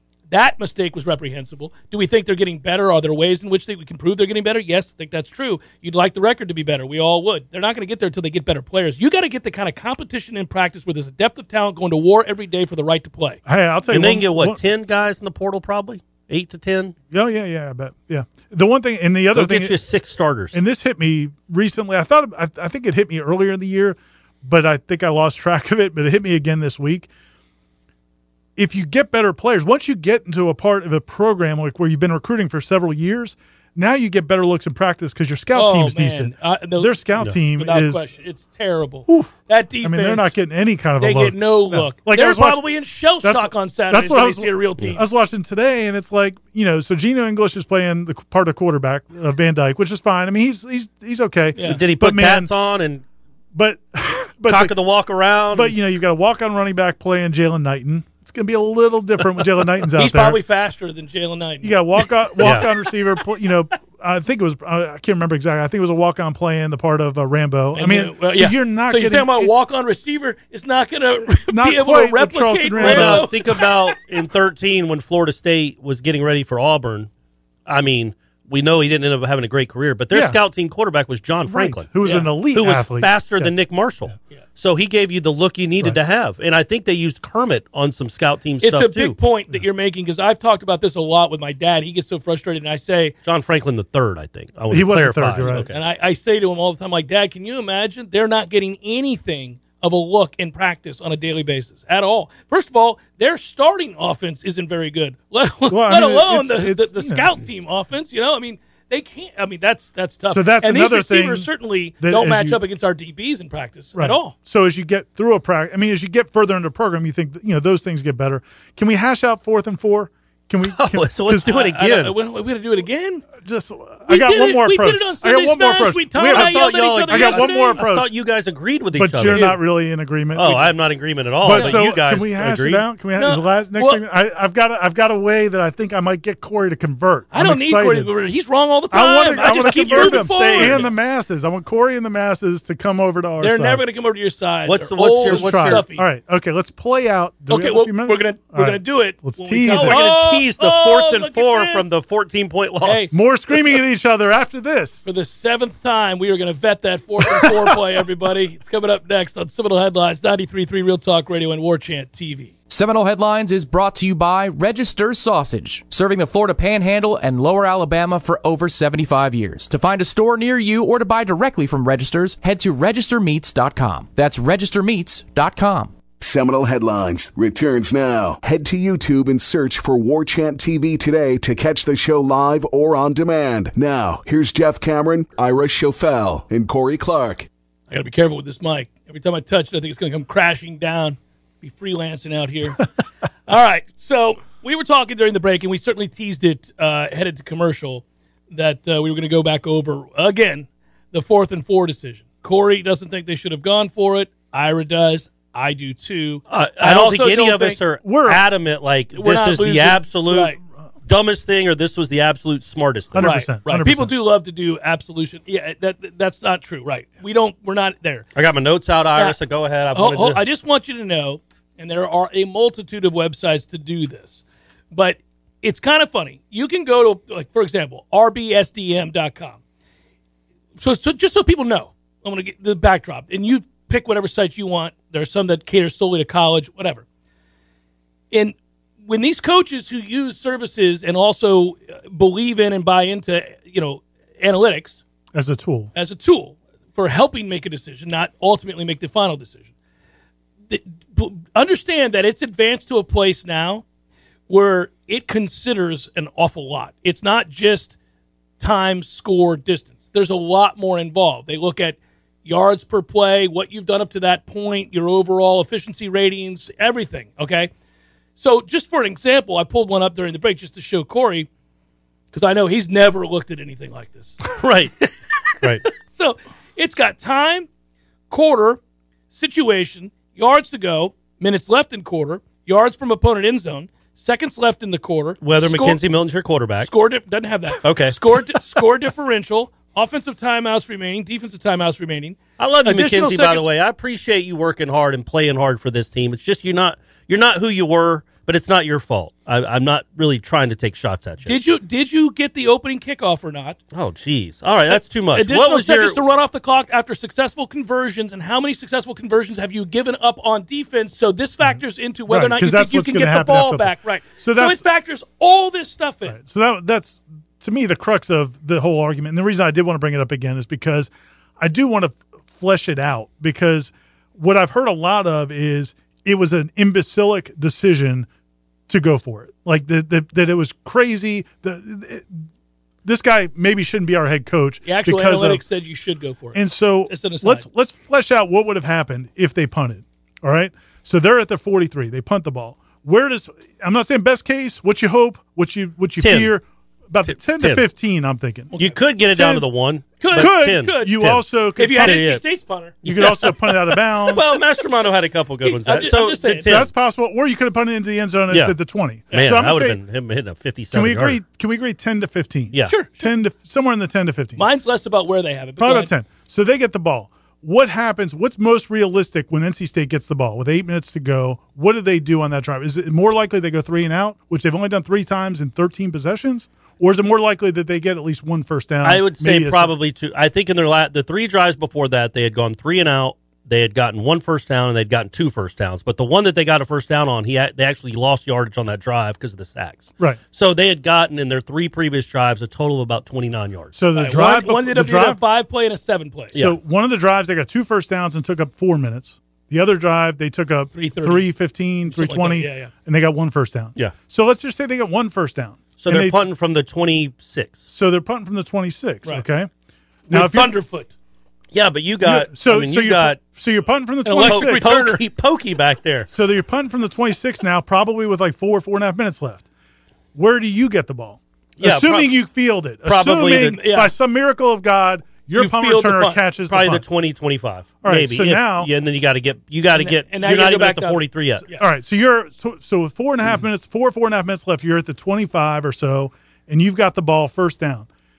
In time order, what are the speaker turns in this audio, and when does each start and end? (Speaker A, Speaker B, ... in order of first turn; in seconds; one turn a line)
Speaker A: 0.3-13.4
Speaker B: 13.4-14.6
Speaker C: 13.9-16.9
Speaker B: 17.1-19.8
Speaker C: 19.3-20.6
Speaker B: 20.5-27.1
Speaker B: 28.6-38.1
Speaker A: 35.5-37.0
Speaker A: 37.5-40.4
Speaker B: 39.1-42.6
Speaker A: 41.0-45.0
Speaker B: 43.2-52.5
Speaker A: 51.5-51.8
Speaker C: 51.6-53.0
Speaker B: 53.5-54.7
Speaker C: 54.5-55.8
Speaker B: 55.5-60.4
Speaker A: 59.8-62.5
Speaker B: 61.6-69.5
Speaker C: 62.4-62.7
Speaker A: 67.7-74.0
Speaker B: 71.3-73.3
Speaker C: 72.8-77.1
Speaker C: 77.7-82.0
Speaker B: 80.1-80.4
Speaker B: 81.5-83.5
Speaker A: 82.0-82.3
Speaker C: 82.5-89.2
Speaker A: 88.6-93.1
Speaker C: 93.2-95.8
Speaker B: 94.7-95.7
Speaker A: 95.7-114.3
Speaker B: 105.7-107.3
Speaker B: 110.3-112.6
Speaker B: 113.9-121.6
Speaker C: 120.7-122.2
Speaker A: 121.4-123.3
Speaker B: 123.4-128.1
Speaker A: 124.1-127.8
Speaker C: 126.3-129.6
Speaker B: 128.9-130.7
Speaker A: 129.3-129.6
Speaker C: 130.3-132.8
Speaker B: 131.4-138.1
Speaker A: 131.5-131.8
Speaker A: 133.2-134.0
Speaker A: 137.3-140.9
Speaker B: 138.9-143.8
Speaker C: 139.2-140.9
Speaker A: 143.4-146.1
Speaker C: 144.7-145.9
Speaker B: 145.2-150.0
Speaker A: 147.5-151.9
Speaker C: 149.7-153.1
Speaker A: 152.8-153.1
Speaker B: 153.1-155.0
Speaker A: 155.0-162.5
Speaker B: 157.2-157.7
Speaker D: 162.7-175.9
Speaker E: 176.2-187.5
Speaker A: 187.9-192.8
Speaker A: 193.5-207.8
Speaker C: 206.5-213.4
Speaker B: 208.0-208.4
Speaker A: 209.1-210.6
Speaker B: 213.1-214.1
Speaker A: 213.2-218.3
Speaker C: 218.3-220.4
Speaker A: 219.9-224.4
Speaker A: 224.9-229.6
Speaker A: 230.8-237.0
Speaker A: 238.3-245.0
Speaker B: 245.3-245.9
Speaker A: 245.9-249.7
Speaker A: 250.7-253.8
Speaker A: 254.5-257.9
Speaker A: 258.6-267.7
Speaker A: 268.4-271.5
Speaker A: 272.3-274.5
Speaker C: 274.5-274.9
Speaker A: 275.9-277.7
Speaker A: 278.3-286.0
Speaker C: 285.4-286.9
Speaker A: 286.8-293.7
Speaker C: 287.8-288.2
Speaker C: 292.6-301.6
Speaker A: 301.4-303.8
Speaker C: 303.9-306.2
Speaker A: 304.9-316.4
Speaker B: 311.6-314.8
Speaker B: 316.2-328.3
Speaker B: 328.9-332.4
Speaker B: 333.0-335.6
Speaker A: 334.8-337.6
Speaker B: 336.5-348.8
Speaker C: 346.2-346.5
Speaker C: 347.3-347.8
Speaker C: 348.8-351.4
Speaker B: 349.3-349.6
Speaker A: 350.2-351.2
Speaker B: 350.3-352.4
Speaker A: 351.8-353.7
Speaker C: 352.0-352.4
Speaker C: 353.0-353.5
Speaker B: 353.0-354.4
Speaker C: 354.2-356.9
Speaker A: 355.6-356.8
Speaker B: 356.6-360.0
Speaker C: 358.5-358.7
Speaker C: 359.3-361.4
Speaker B: 360.9-364.6
Speaker A: 362.8-363.1
Speaker A: 364.6-366.1
Speaker B: 365.8-379.9
Speaker C: 379.0-393.9
Speaker B: 393.9-395.4
Speaker A: 394.1-396.6
Speaker B: 396.5-406.4
Speaker A: 400.9-401.5
Speaker A: 402.1-402.9
Speaker C: 406.0-407.8
Speaker B: 407.9-409.7
Speaker A: 410.3-411.1
Speaker B: 410.3-410.8
Speaker C: 411.7-413.4
Speaker B: 412.2-415.1
Speaker A: 414.2-415.2
Speaker C: 414.4-416.3
Speaker B: 416.3-419.6
Speaker B: 420.3-427.0
Speaker C: 421.8-422.3
Speaker C: 423.0-423.8
Speaker A: 423.5-424.1
Speaker A: 425.5-426.4
Speaker C: 426.7-431.6
Speaker B: 428.0-428.9
Speaker A: 429.9-431.8
Speaker B: 431.8-438.1